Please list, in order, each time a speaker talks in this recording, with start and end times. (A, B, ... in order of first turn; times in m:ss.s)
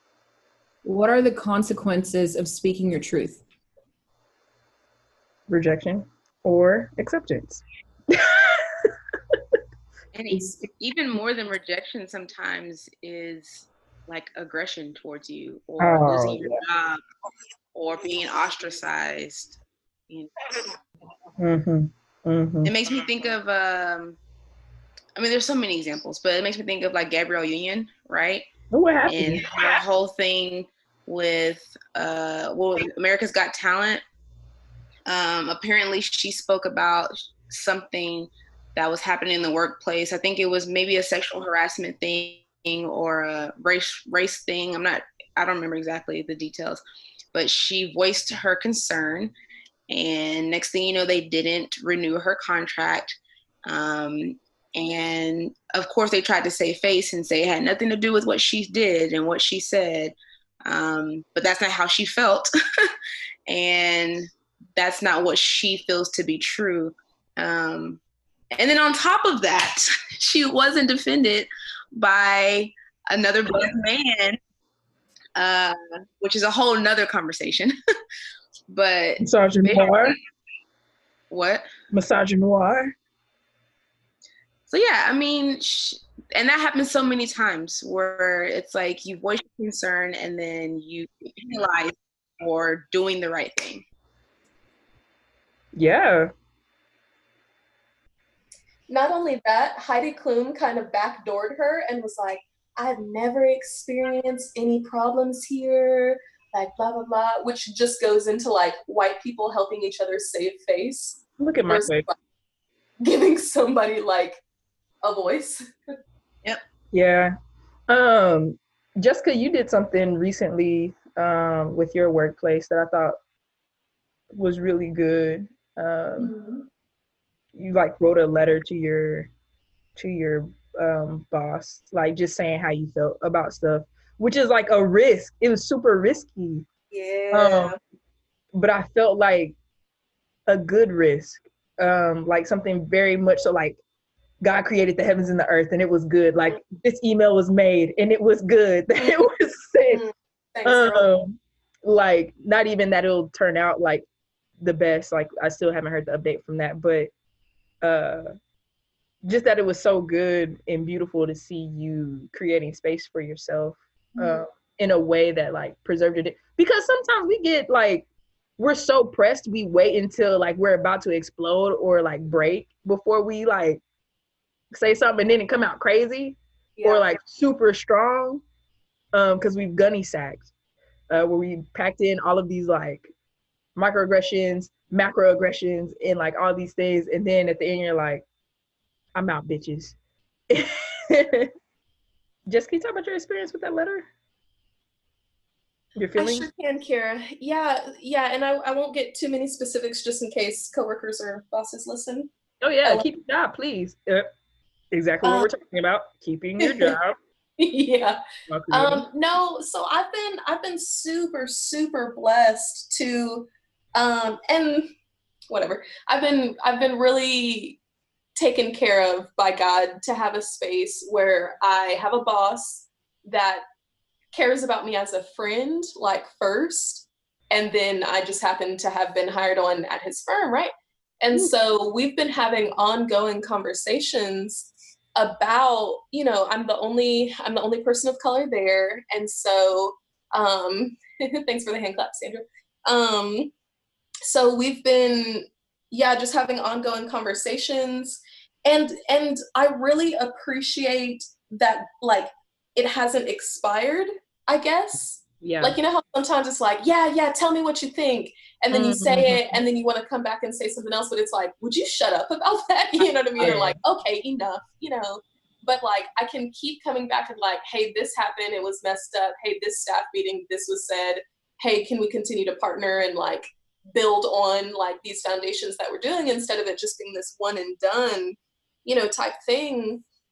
0:00.8-0:03.4 A
0:05.5-0:09.4 B
0:10.1-0:17.0 C
0:15.8-0:16.6 B
0:17.7-0:19.6 C
0:21.4-0:22.7 B
0:22.6-0:24.2 C
0:25.2-0:28.5 C
0:28.7-0:29.5 B
0:29.1-0:34.0 C
0:35.1-0:46.8 C
0:47.3-0:49.3 C
0:49.9-1:02.9 C
1:03.5-1:08.0 C
1:08.5-1:14.4 C
1:15.4-1:17.7 C
1:18.7-1:20.2 C
1:19.2-1:20.1 B
1:21.3-1:21.6 C
1:21.9-1:22.9 B
1:24.7-1:33.8 C
1:35.7-1:36.3 B
1:38.9-1:52.1 D
1:51.4-1:52.1 B
1:53.0-1:54.4 D
1:55.0-1:55.7 D
1:56.9-1:57.3 B
1:57.9-2:03.2 B
2:04.3-2:06.3 B
2:06.2-2:06.7 D
2:07.5-2:09.3 B
2:10.0-2:16.6 B
2:16.9-2:17.8 D
2:17.3-2:17.8 B
2:18.5-2:19.5 B
2:20.5-2:23.8 B
2:24.4-2:30.0 B
2:29.9-2:31.1 D
2:30.6-2:34.0 B
2:34.6-2:37.1 B
2:37.8-2:38.3 B
2:39.2-2:48.0 B
2:44.2-2:44.4 D
2:48.6-2:53.8 B
2:54.7-2:58.4 B
2:56.8-2:57.1 D
2:59.1-3:00.5 B
3:01.1-3:03.1 B
3:03.8-3:08.2 B
3:09.1-3:10.0 B
3:10.5-3:11.5 B
3:12.5-3:14.1 B
3:16.0-3:16.5 B
3:16.2-3:22.3 D
3:22.6-3:24.3 B
3:24.9-3:27.2 B
3:25.2-3:25.5 D
3:26.6-3:26.9 D
3:27.6-3:28.2 D
3:28.5-3:29.0 B
3:28.7-3:34.9 D
3:35.5-3:37.8 D
3:38.3-3:43.6 D
3:44.3-4:03.5 D
4:04.2-4:40.0 D
4:15.4-4:15.8 B
4:18.7-4:19.6 B
4:23.4-4:23.8 B